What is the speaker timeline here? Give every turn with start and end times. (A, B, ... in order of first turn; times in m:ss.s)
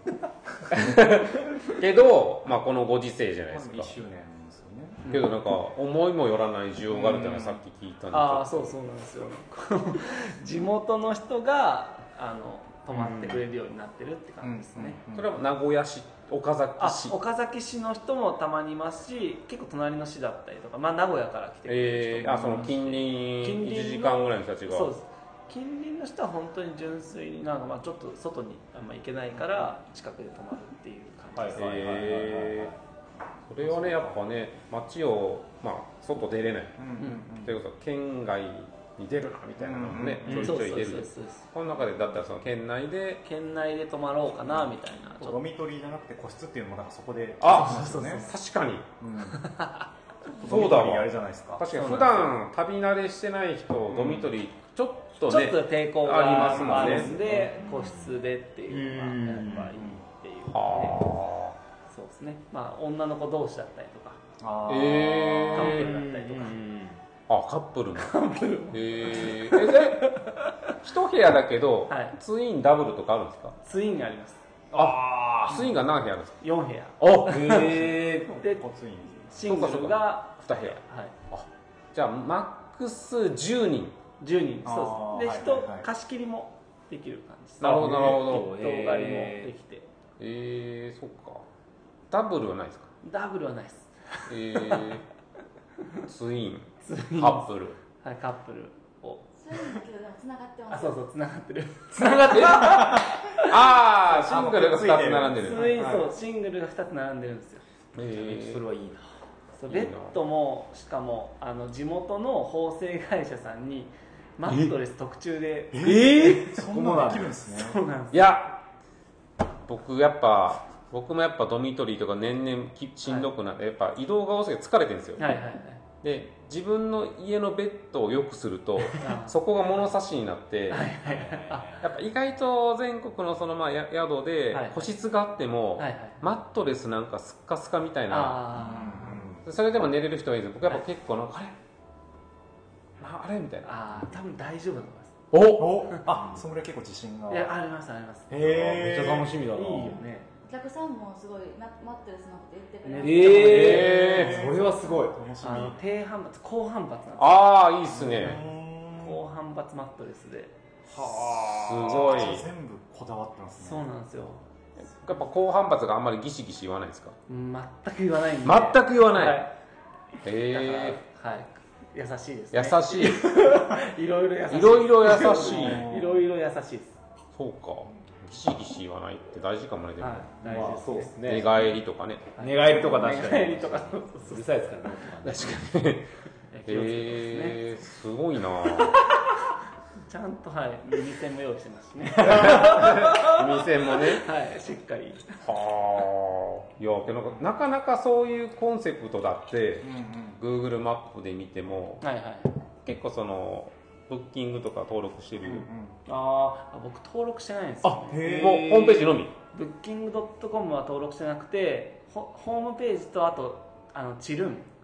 0:00.7-0:04.0 A
0:03.5-0:05.0 B
0:05.0-0:05.3 C
0:05.1-0:08.7 A
0:06.9-0:07.6 B
0:08.1-0:15.0 C
0:12.9-0:13.4 D
0:14.4-0:15.3 B
0:15.1-0:17.2 A
0:16.8-0:31.7 C
0:21.7-0:24.9 A
0:31.4-0:32.8 D
0:31.6-0:32.7 A
0:33.5-0:36.9 A
0:33.6-0:34.2 B
0:36.8-0:37.5 B
0:37.0-0:37.2 C
0:37.4-0:43.2 A
0:39.6-0:40.5 B
0:40.2-0:40.6 D
0:40.3-0:41.4 C
0:43.2-0:45.4 C
0:45.2-0:48.3 B
0:47.4-0:48.9 A
0:47.5-0:48.3 C
0:49.0-0:49.5 B
0:49.4-0:49.8 C
0:50.3-0:51.7 B
0:50.4-0:57.1 A
0:51.8-0:52.1 C
0:53.9-0:54.3 B
0:55.2-1:01.1 C
0:56.3-0:57.6 B
0:57.3-0:58.1 D
0:58.7-0:59.8 D
0:59.7-1:00.0 B
1:00.5-1:01.6 A
1:01.9-1:04.2 C
1:04.4-1:05.6 B
1:04.7-1:06.0 A
1:05.5-1:06.6 C
1:05.6-1:07.0 D
1:07.3-1:08.2 A
1:08.0-1:10.7 C
1:08.7-1:10.1 A
1:10.8-1:13.6 A
1:11.9-1:12.2 C
1:13.6-1:14.4 C
1:14.7-1:15.6 D
1:14.7-1:16.4 A
1:16.4-1:18.6 C
1:17.0-1:17.3 A
1:17.1-1:18.3 D
1:17.5-1:19.4 B
1:19.3-1:21.1 C
1:19.4-1:24.0 A
1:24.2-1:29.9 C
1:24.6-1:25.9 B
1:27.6-1:28.5 A
1:27.6-1:29.5 D
1:30.2-1:31.4 A
1:32.1-1:32.9 A
1:33.0-1:35.0 C
1:34.3-1:35.0 A
1:36.1-1:37.8 A
1:36.8-1:39.8 C
1:39.4-1:41.0 E
1:40.7-1:43.6 C
1:42.2-1:43.1 B
1:42.3-1:42.8 A
1:43.4-1:46.1 A
1:44.1-1:45.7 B
1:45.4-1:47.6 C
1:47.9-1:48.6 A
1:48.0-1:49.1 D
1:49.6-1:56.5 C
1:49.7-1:50.2 A
1:55.7-1:57.8 B
1:55.8-1:57.4 D
1:57.1-1:58.3 C
1:58.1-1:58.6 A
1:59.6-2:05.3 A
2:05.2-2:05.8 C
2:06.0-2:10.9 A
2:09.0-2:09.4 C
2:10.7-2:11.8 C
2:11.1-2:11.8 D
2:11.8-2:18.6 A
2:14.5-2:14.9 C
2:15.8-2:16.2 C
2:18.1-2:19.2 C
2:18.6-2:19.4 B
2:19.4-2:21.6 A
2:23.0-2:23.8 A
2:23.6-2:25.2 C
2:25.3-2:25.7 A
2:25.5-2:27.5 B
2:27.3-2:28.9 C
2:28.3-2:29.4 B
2:28.8-2:30.0 D
2:29.5-2:30.3 C
2:30.5-2:33.5 E
2:32.8-2:34.0 C
2:33.0-2:35.2 D
2:33.3-2:35.8 B
2:33.4-2:34.4 A
2:35.4-2:37.5 C
2:37.2-2:38.4 A
2:37.9-2:39.2 B
2:38.9-2:40.5 C
2:40.9-2:42.1 D
2:41.1-2:43.8 B
2:41.4-2:42.5 A
2:43.6-2:44.4 C
2:45.0-2:47.2 A
2:47.3-2:49.6 C
2:48.4-2:49.5 A
2:50.2-2:51.0 A
2:50.5-2:57.0 C
2:52.5-2:53.4 A
2:54.5-2:55.9 A
2:55.4-2:56.2 B
2:57.4-3:02.3 A
3:00.0-3:01.4 C
3:00.4-3:01.5 D
3:02.4-3:04.8 C
3:02.4-3:05.6 D
3:05.2-3:06.1 A
3:06.5-3:07.7 C
3:06.6-3:09.0 A
3:08.7-3:09.2 C
3:10.0-3:15.4 C
3:12.2-3:14.3 A
3:15.4-3:22.0 A
3:19.8-3:20.4 B
3:22.0-3:22.6 C
3:22.8-3:25.7 A
3:25.4-3:26.0 B
3:26.1-3:28.8 C
3:27.8-3:29.3 A
3:28.1-3:28.8 B
3:28.6-3:28.9 D
3:29.5-3:34.7 C